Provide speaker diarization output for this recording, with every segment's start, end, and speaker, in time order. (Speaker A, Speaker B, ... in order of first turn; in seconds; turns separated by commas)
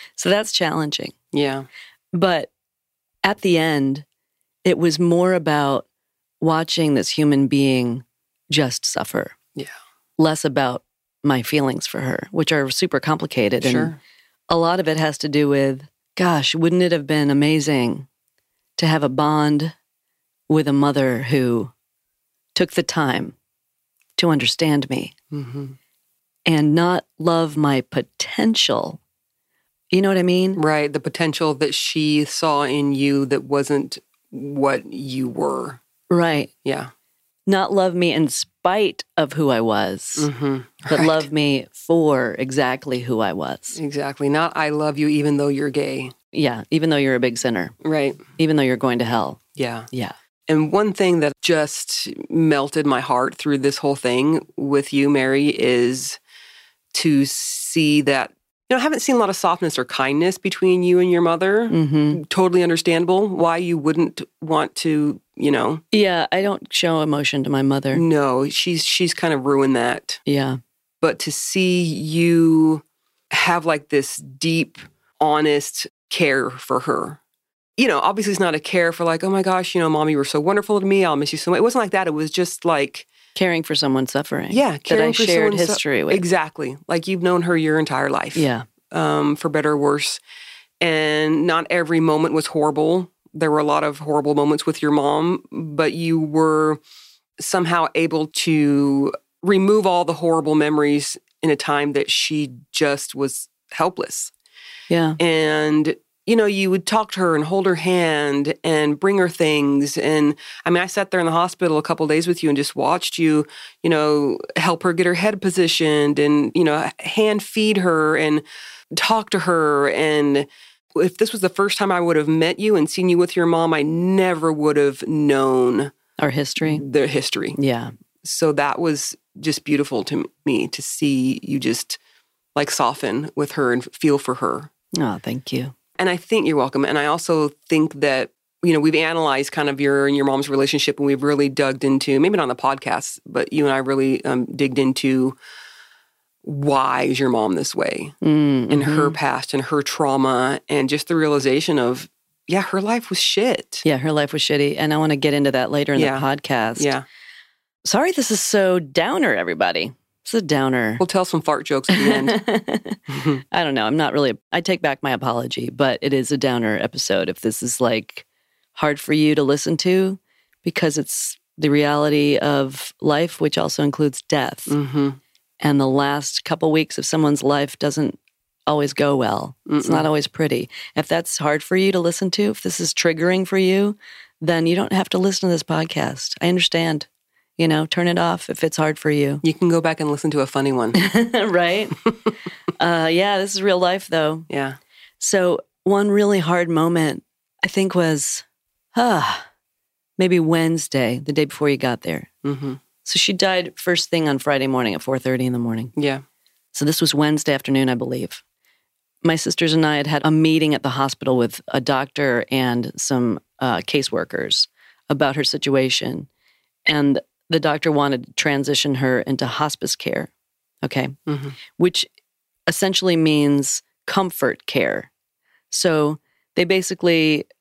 Speaker A: 0.2-1.1, Speaker B: 1.3-1.7, Speaker A: 2.1-2.5, Speaker A: 3.2-4.1, Speaker A: 4.7-5.9, Speaker A: 6.4-9.4, Speaker A: 10.2-13.9, Speaker B: 13.6-14.0, Speaker A: 14.5-18.1, Speaker A: 18.8-19.8, Speaker A: 20.5-21.7, Speaker A: 22.6-23.4, Speaker A: 24.2-25.1, Speaker B: 25.3-25.8, Speaker A: 26.5-29.0, Speaker A: 29.9-30.6, Speaker B: 30.6-35.8, Speaker A: 36.1-36.5, Speaker B: 36.6-36.9, Speaker A: 37.5-40.3, Speaker B: 40.2-41.3, Speaker A: 40.9-43.8, Speaker B: 43.8-46.1, Speaker A: 46.3-47.7, Speaker B: 47.8-48.2, Speaker A: 48.4-50.1, Speaker B: 49.6-49.9, Speaker B: 50.5-56.2, Speaker B: 56.9-65.8, Speaker A: 61.7-62.2, Speaker A: 65.9-68.0, Speaker B: 67.9-70.2, Speaker A: 70.3-70.6, Speaker B: 71.0-77.2, Speaker B: 77.8-83.1, Speaker A: 83.3-86.2, Speaker B: 84.5-90.2, Speaker A: 88.3-88.7, Speaker B: 90.8-96.8, Speaker B: 97.4-104.3, Speaker A: 104.9-105.2, Speaker B: 105.2-125.9, Speaker A: 126.2-126.8, Speaker B: 126.6-127.6, Speaker A: 127.6-127.9, Speaker B: 128.2-132.0, Speaker B: 132.6-134.7, Speaker A: 135.0-135.7, Speaker B: 136.0-145.4, Speaker B: 146.4-148.1, Speaker A: 148.2-149.2, Speaker B: 148.7-153.8, Speaker A: 153.8-156.9, Speaker B: 156.0-156.2, Speaker B: 156.8-157.1, Speaker A: 157.8-161.0, Speaker B: 161.0-162.4, Speaker A: 161.9-174.8, Speaker B: 163.1-163.4, Speaker B: 174.7-175.2, Speaker A: 175.6-187.1, Speaker B: 179.7-180.1, Speaker A: 187.6-189.4, Speaker B: 189.4-191.0, Speaker A: 190.9-192.0, Speaker A: 192.8-194.5, Speaker B: 194.5-194.8, Speaker A: 195.2-198.4, Speaker A: 198.9-199.5, Speaker A: 200.2-202.3, Speaker B: 202.4-202.8, Speaker A: 203.0-205.9, Speaker B: 206.0-206.2, Speaker A: 206.7-208.4, Speaker A: 209.2-216.3, Speaker A: 216.9-220.3, Speaker A: 220.8-221.2, Speaker B: 221.3-221.6, Speaker A: 221.7-222.1, Speaker A: 222.7-225.1, Speaker A: 225.7-227.5